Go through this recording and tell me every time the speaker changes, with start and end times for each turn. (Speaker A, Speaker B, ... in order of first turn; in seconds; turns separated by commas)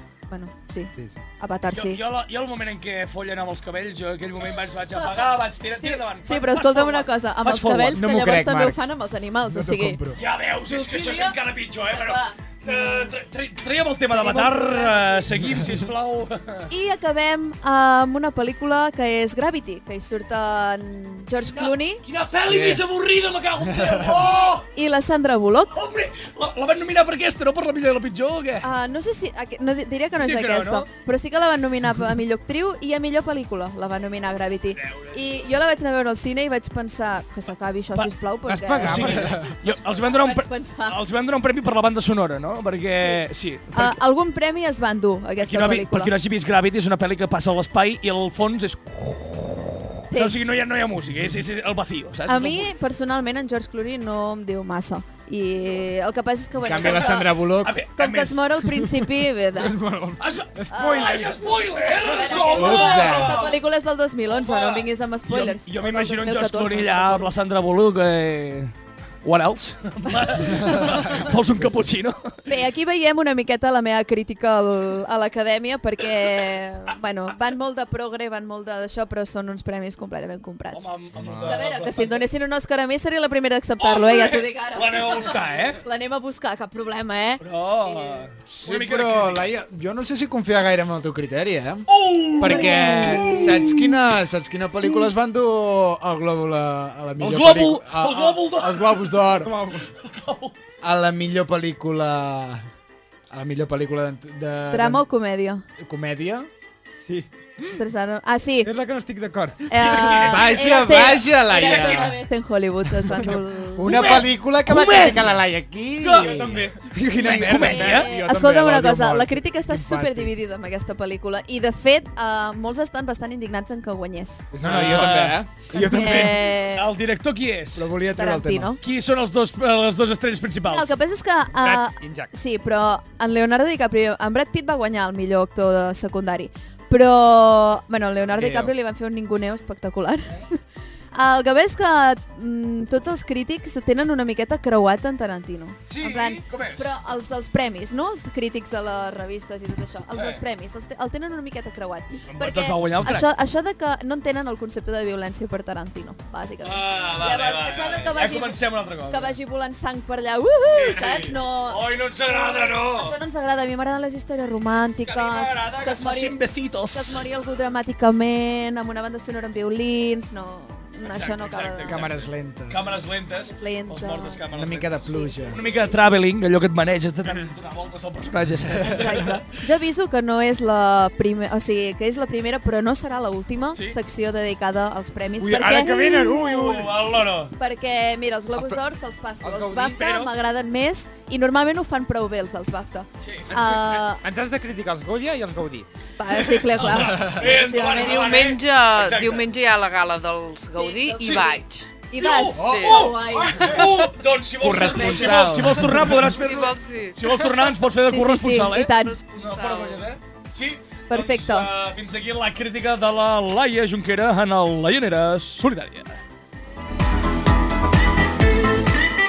Speaker A: 0.3-2.0, Speaker B: 1.7-8.0, Speaker A: 5.8-10.0, Speaker C: 7.9-8.8, Speaker C: 9.5-10.2, Speaker B: 10.1-16.7, Speaker A: 10.6-13.1, Speaker A: 14.1-15.4, Speaker A: 16.7-22.0, Speaker B: 21.5-24.7, Speaker C: 22.3-22.8, Speaker C: 23.6-24.2, Speaker A: 24.7-25.8, Speaker B: 25.7-28.7, Speaker A: 28.6-39.3, Speaker B: 30.2-30.9, Speaker B: 34.7-35.5, Speaker D: 38.5-39.5, Speaker B: 38.8-44.0, Speaker C: 39.2-39.4, Speaker A: 39.9-41.0, Speaker A: 42.9-46.1, Speaker B: 45.4-52.7, Speaker A: 50.1-50.4, Speaker A: 52.3-57.3, Speaker C: 56.6-57.8, Speaker B: 56.8-58.4, Speaker A: 58.0-59.8, Speaker D: 59.6-61.3, Speaker B: 60.2-63.6, Speaker A: 60.7-67.3, Speaker C: 62.5-63.4, Speaker B: 64.3-72.4, Speaker A: 72.5-80.9, Speaker B: 80.7-82.2, Speaker D: 81.2-81.6, Speaker A: 81.4-88.2, Speaker B: 83.8-85.8, Speaker B: 87.4-89.5, Speaker C: 88.5-91.9, Speaker B: 91.9-93.9, Speaker C: 92.4-99.6, Speaker A: 92.5-92.8, Speaker B: 97.2-99.3, Speaker D: 99.4-99.8, Speaker B: 99.8-100.5, Speaker C: 100.8-102.7, Speaker C: 103.3-105.0, Speaker A: 104.7-105.6, Speaker C: 105.8-106.5, Speaker D: 107.1-107.7, Speaker A: 107.8-108.7, Speaker D: 108.6-109.8, Speaker A: 109.7-114.2, Speaker B: 109.8-110.5, Speaker C: 110.1-112.2, Speaker B: 111.5-112.1, Speaker C: 113.8-120.3, Speaker B: 113.9-115.3, Speaker B: 116.0-116.5, Speaker D: 116.2-118.2, Speaker A: 117.2-124.5, Speaker B: 117.2-118.1, Speaker D: 124.5-126.3, Speaker C: 124.6-126.3, Speaker B: 124.6-125.4, Speaker A: 125.7-126.9, Speaker B: 125.9-127.9, Speaker C: 127.7-128.7, Speaker A: 128.1-128.8, Speaker B: 128.8-130.9, Speaker A: 130.7-140.6, Speaker D: 131.6-132.3, Speaker D: 138.3-138.7, Speaker A: 141.1-166.4, Speaker B: 145.9-146.9, Speaker B: 150.1-150.4, Speaker B: 152.3-153.3, Speaker B: 156.6-159.3, Speaker B: 160.7-163.2, Speaker B: 165.0-167.2, Speaker A: 166.9-172.0, Speaker B: 171.0-179.4, Speaker C: 171.8-172.8, Speaker A: 173.4-174.4, Speaker C: 174.5-175.6, Speaker A: 175.1-175.9, Speaker A: 178.8-186.4, Speaker D: 185.4-187.0, Speaker B: 186.2-187.5, Speaker A: 187.6-194.2, Speaker D: 189.4-190.0, Speaker B: 189.9-190.3, Speaker B: 193.2-193.5, Speaker D: 193.5-195.9, Speaker A: 196.2-198.3, Speaker B: 196.7-199.4, Speaker E: 197.9-201.9, Speaker A: 200.7-204.0, Speaker B: 201.2-201.5, Speaker B: 202.1-216.2, Speaker E: 202.6-203.1, Speaker C: 202.6-202.9, Speaker C: 204.6-206.2, Speaker A: 204.9-205.6, Speaker E: 206.2-207.5, Speaker A: 208.1-209.2, Speaker E: 208.9-210.0, Speaker A: 211.1-211.7